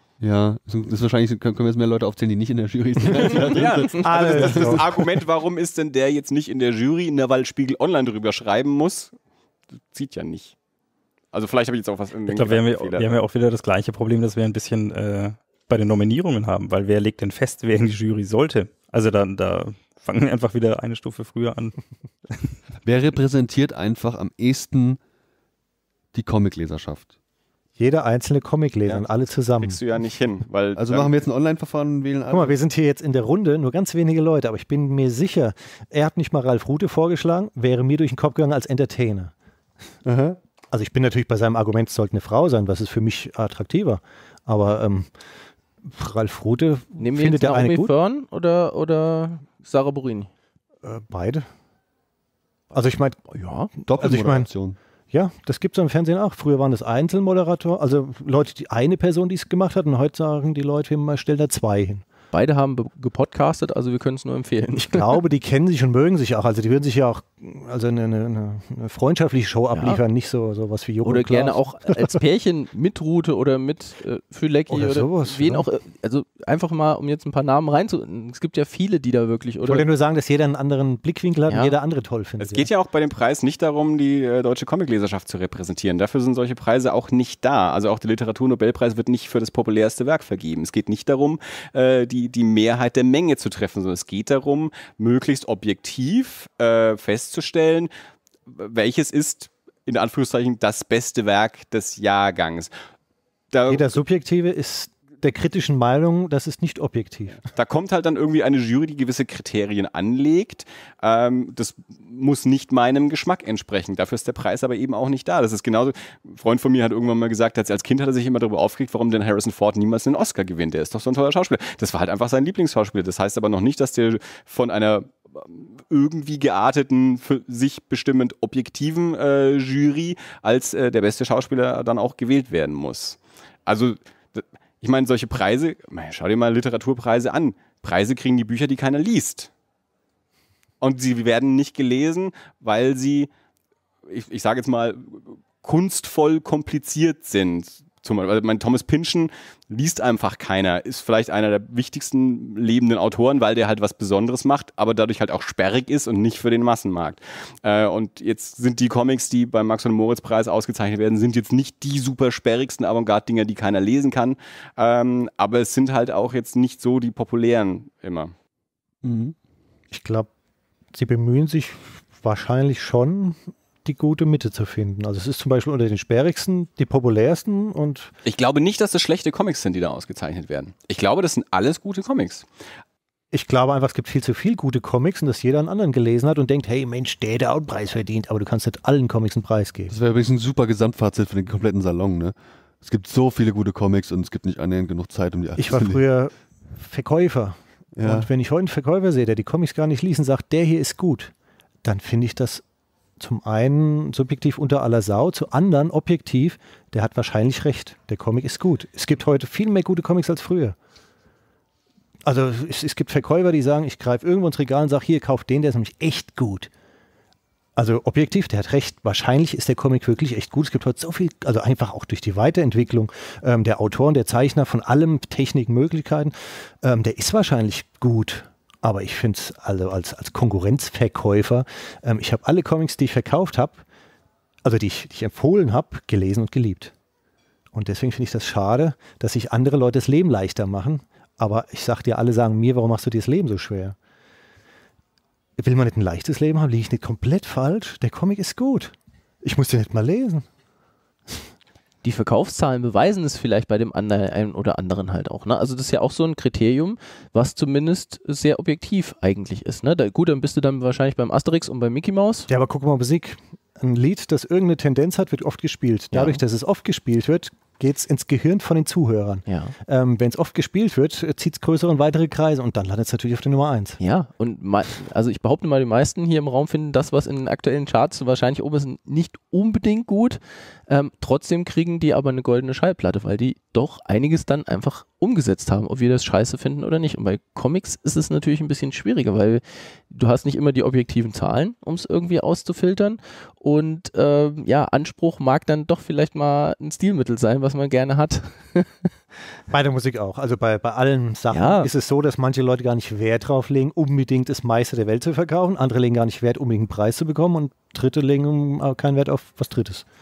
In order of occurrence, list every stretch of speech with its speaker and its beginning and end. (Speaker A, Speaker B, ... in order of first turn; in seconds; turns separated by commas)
Speaker A: 0.2-4.9, Speaker B: 3.2-9.1, Speaker C: 4.0-4.9, Speaker B: 9.9-10.6, Speaker B: 11.3-13.1, Speaker D: 12.3-21.8, Speaker A: 22.9-25.0, Speaker A: 26.1-27.1, Speaker C: 27.8-29.8, Speaker B: 29.6-31.1, Speaker A: 30.8-32.6, Speaker C: 32.3-39.3, Speaker A: 40.1-40.4, Speaker C: 40.7-45.1, Speaker C: 45.8-47.9, Speaker E: 47.0-50.3, Speaker C: 50.8-51.5, Speaker C: 52.7-53.4, Speaker E: 53.3-53.7, Speaker A: 53.8-54.8, Speaker C: 54.0-54.5, Speaker C: 55.1-62.1, Speaker E: 62.3-65.2, Speaker C: 64.8-72.2, Speaker E: 69.7-70.0, Speaker E: 71.0-79.8, Speaker C: 74.7-75.7, Speaker C: 79.6-82.7, Speaker E: 81.5-81.7, Speaker B: 82.4-97.9, Speaker B: 98.5-102.7, Speaker B: 103.5-104.0, Speaker C: 103.7-107.4, Speaker B: 107.5-139.5, Speaker B: 140.8-143.3, Speaker B: 144.1-168.3, Speaker A: 169.0-169.3, Speaker C: 169.9-170.3, Speaker C: 170.9-178.1, Speaker B: 178.2-182.5, Speaker C: 183.3-189.9, Speaker A: 189.9-196.0, Speaker C: 195.6-201.3, Speaker A: 198.0-198.3, Speaker C: 201.8-202.6, Speaker C: 203.2-210.8, Speaker C: 212.2-216.7, Speaker C: 217.8-233.8, Speaker C: 234.6-236.9, Speaker C: 237.7-244.0, Speaker C: 245.6-250.5, Speaker E: 252.0-262.5, Speaker C: 262.5-274.0, Speaker E: 266.1-266.4, Speaker E: 269.5-269.8, Speaker E: 274.0-299.1, Speaker C: 299.7-310.1, Speaker E: 301.5-301.9